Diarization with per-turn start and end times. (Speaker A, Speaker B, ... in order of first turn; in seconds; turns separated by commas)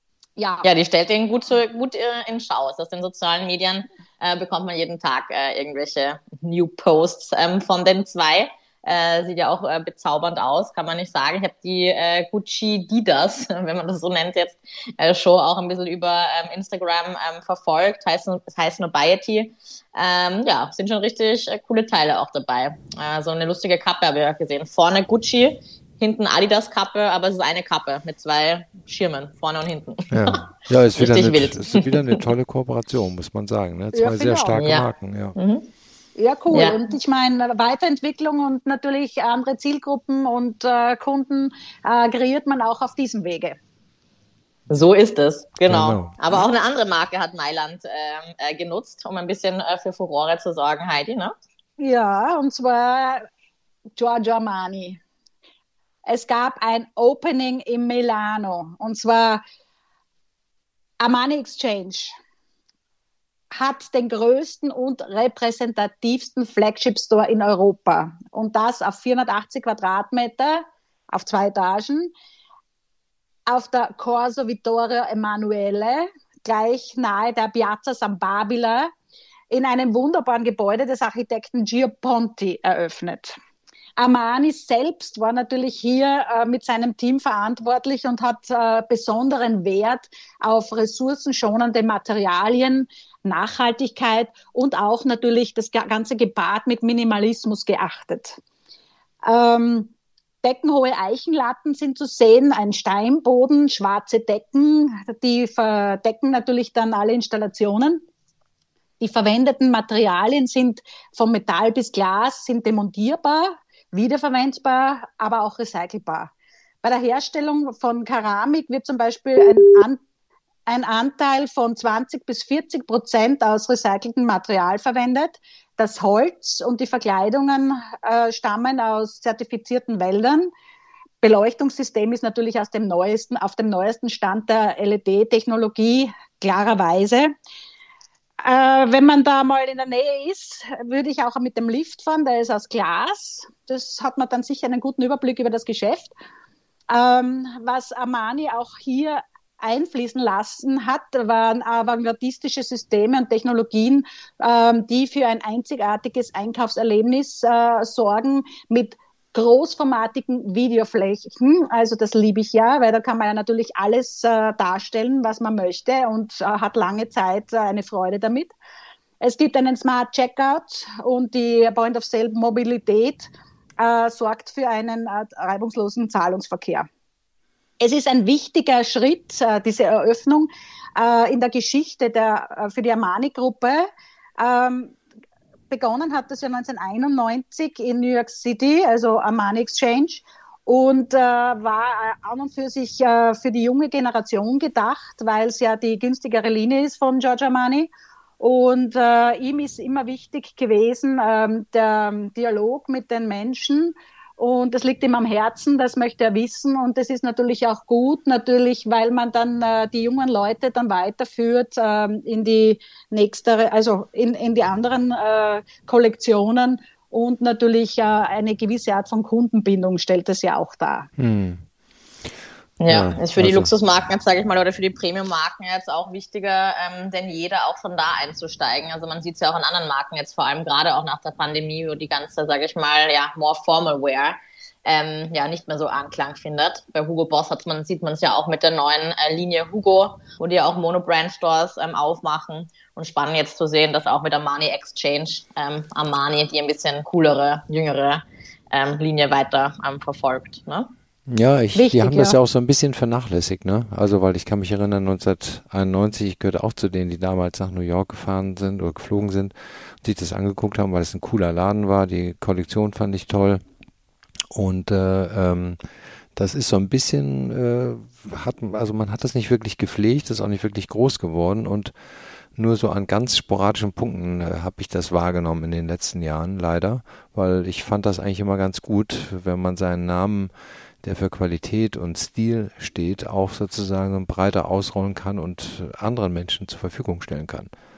Speaker A: 0.4-0.7, Speaker B: 0.6-32.2, Speaker C: 30.1-35.4, Speaker A: 33.9-34.6, Speaker B: 34.6-35.7, Speaker A: 36.2-43.6, Speaker B: 36.5-36.8, Speaker B: 44.7-51.3, Speaker C: 45.7-46.2, Speaker A: 51.8-53.2, Speaker A: 54.0-55.0, Speaker A: 56.1-59.4, Speaker A: 61.0-62.2, Speaker A: 63.5-72.1, Speaker A: 73.5-78.9, Speaker A: 79.5-83.4, Speaker A: 84.0-98.4, Speaker A: 99.2-108.0, Speaker A: 109.0-116.3, Speaker A: 116.8-120.0, Speaker A: 120.7-130.5, Speaker A: 131.2-137.3, Speaker A: 138.4-146.1, Speaker A: 146.9-168.5, Speaker A: 169.2-176.9, Speaker A: 177.8-183.9, Speaker A: 184.4-185.0, Speaker A: 185.7-221.1, Speaker C: 221.2-221.6, Speaker B: 222.8-250.9, Speaker C: 222.9-223.7, Speaker C: 251.3-263.6, Speaker A: 251.8-252.4, Speaker C: 264.5-265.8, Speaker C: 266.4-271.9, Speaker C: 272.6-280.5, Speaker C: 281.0-287.7